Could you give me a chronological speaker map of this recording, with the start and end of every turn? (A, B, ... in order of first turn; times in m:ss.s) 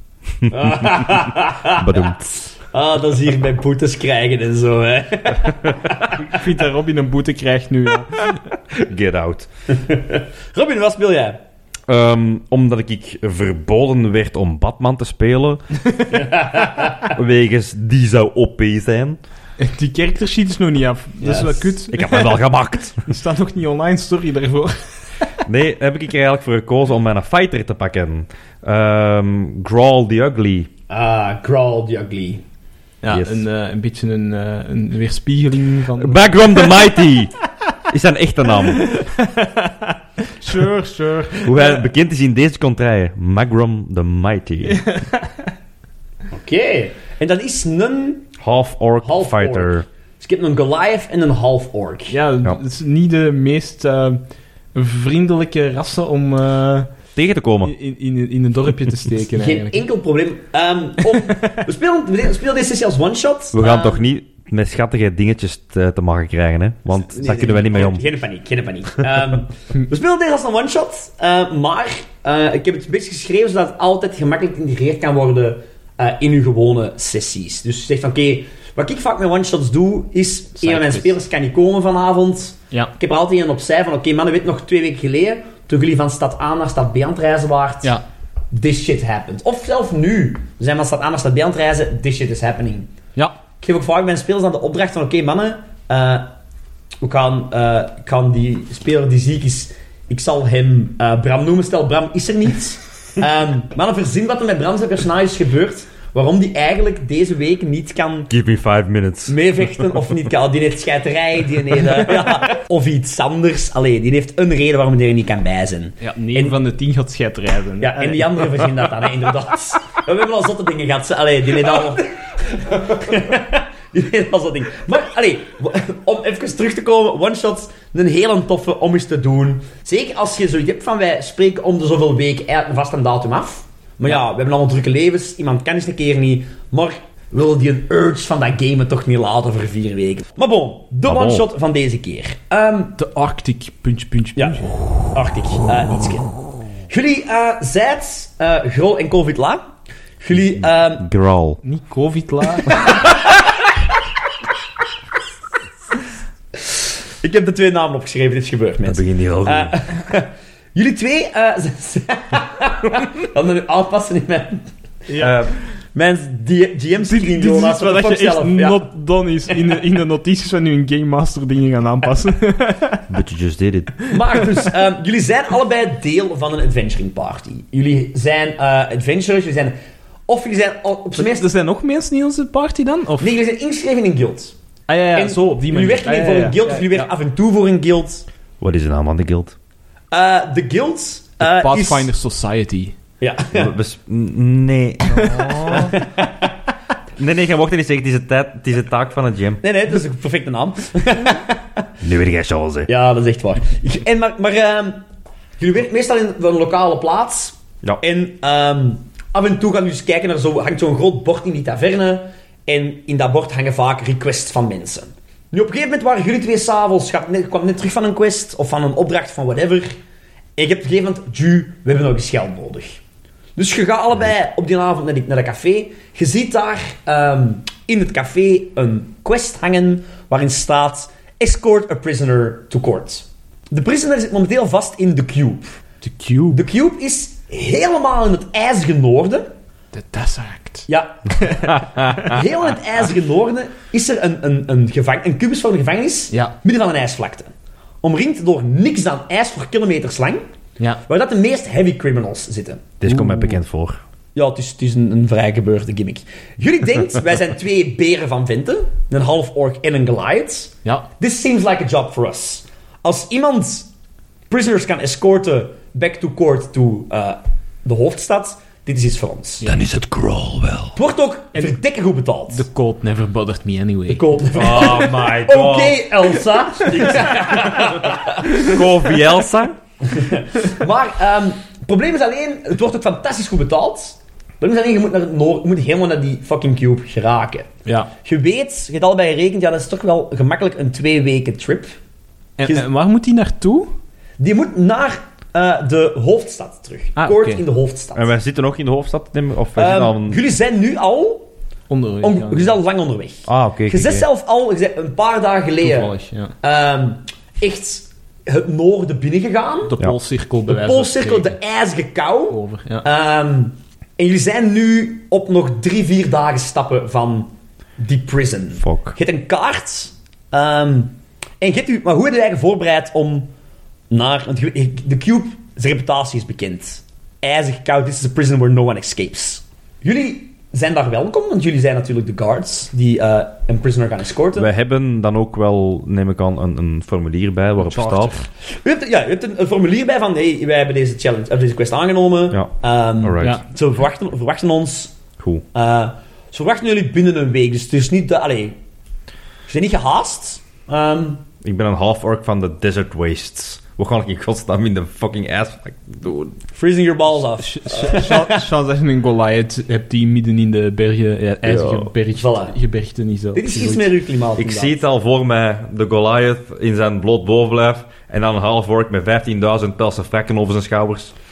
0:00.3-0:02.5 A
0:00.5-0:02.2 B
0:02.7-0:06.4 B
0:06.1-0:08.4 C
0:08.7-0:09.5 A
0:09.8-0:11.4 B
0:11.9-0:15.6 A
0:16.1-0:17.2 B
0:17.1-0:19.2 A
0:19.6-0:22.4 C
0:21.2-0:21.8 B
0:21.9-0:23.0 A
0:23.0-0:24.9 C
0:25.4-0:30.7 A
0:30.9-0:32.4 B
0:33.0-0:36.8 C
0:33.1-0:33.4 A
0:36.0-0:37.4 A
0:37.9-0:39.0 A
0:38.7-0:41.8 C
0:41.4-0:44.8 A
0:44.7-0:45.5 C
0:46.3-0:48.3 B
0:48.4-0:49.8 A
0:49.0-0:52.2 B
0:52.1-0:54.2 C
0:54.7-0:56.9 C
0:57.2-0:57.7 A
0:57.6-0:59.8 C
0:59.4-1:04.0 B
1:01.1-1:01.6 C
1:03.5-1:08.0 A
1:07.0-1:27.9 B
1:20.6-1:21.2 C
1:28.5-1:32.9 B
1:33.6-1:36.3 B
1:37.0-1:48.3 B
1:48.3-1:49.4 A
1:49.3-1:56.6 B
1:56.0-1:58.9 C
1:57.8-2:23.0 B
2:21.0-2:21.5 A
2:23.0-2:24.8 C
2:24.4-2:26.4 B
2:26.9-2:29.7 B
2:30.2-2:31.1 B
2:30.4-2:31.6 A
2:31.6-2:32.8 C
2:32.8-2:33.3 B
2:37.2-2:44.7 B
2:38.9-2:39.8 A
2:45.1-2:45.4 C
2:45.2-2:45.6 A
2:46.0-2:48.9 B
2:47.1-2:53.0 C
2:53.1-2:53.9 A
2:54.1-2:59.8 B
3:00.3-3:01.5 B
3:01.1-3:03.4 C
3:03.2-3:04.5 B
3:04.9-3:07.1 C
3:05.2-3:08.2 B
3:08.6-3:09.6 A
3:10.1-3:12.1 B
3:11.4-3:13.0 C
3:13.2-3:13.7 B
3:13.5-3:15.9 A
3:15.0-3:16.0 C
3:15.7-3:16.5 B
3:17.2-3:19.6 A
3:19.6-3:21.8 B
3:22.0-3:22.9 A
3:22.9-3:25.0 B
3:25.6-3:39.9 B
3:40.6-3:43.0 B
3:43.6-3:55.8 B
3:56.0-3:56.6 C
3:56.5-3:59.5 B
3:59.9-4:02.4 C
4:00.9-4:07.5 B
4:08.0-4:10.4 B
4:11.1-4:12.9 B
4:13.0-4:14.0 A
4:13.1-4:13.6 C
4:14.4-4:23.9 B
4:24.5-4:29.7 B
4:29.6-4:31.0 A
4:31.0-4:32.7 B
4:31.5-4:31.8 C
4:32.5-4:34.2 C
4:34.1-4:38.8 B
4:34.5-4:36.0 A
4:37.0-4:38.0 A
4:38.5-4:39.8 A
4:40.1-4:47.7 B
4:48.2-4:52.0 B
4:52.6-4:53.9 C
4:54.4-4:58.3 B
4:57.2-4:57.6 C
4:58.2-5:00.4 A
4:59.8-5:01.5 B
5:01.9-5:02.8 C
5:02.2-5:06.1 B
5:03.5-5:04.3 A
5:05.8-5:06.5 C
5:06.6-5:09.9 B
5:09.8-5:11.6 C
5:10.7-5:23.5 B
5:12.5-5:13.1 C
5:18.8-5:19.2 A
5:24.1-5:34.7 B
5:34.6-5:38.4 A
5:37.8-5:38.5 C
5:38.7-5:45.1 B
5:42.5-5:43.6 A
5:45.4-5:45.6 A
5:45.7-5:48.8 B
5:49.7-5:51.4 B
5:51.6-5:56.6 A
5:56.8-5:58.6 B
5:57.5-6:04.1 C
6:01.7-6:02.1 A
6:02.4-6:02.8 B
6:03.6-6:05.0 B
6:04.6-6:11.3 A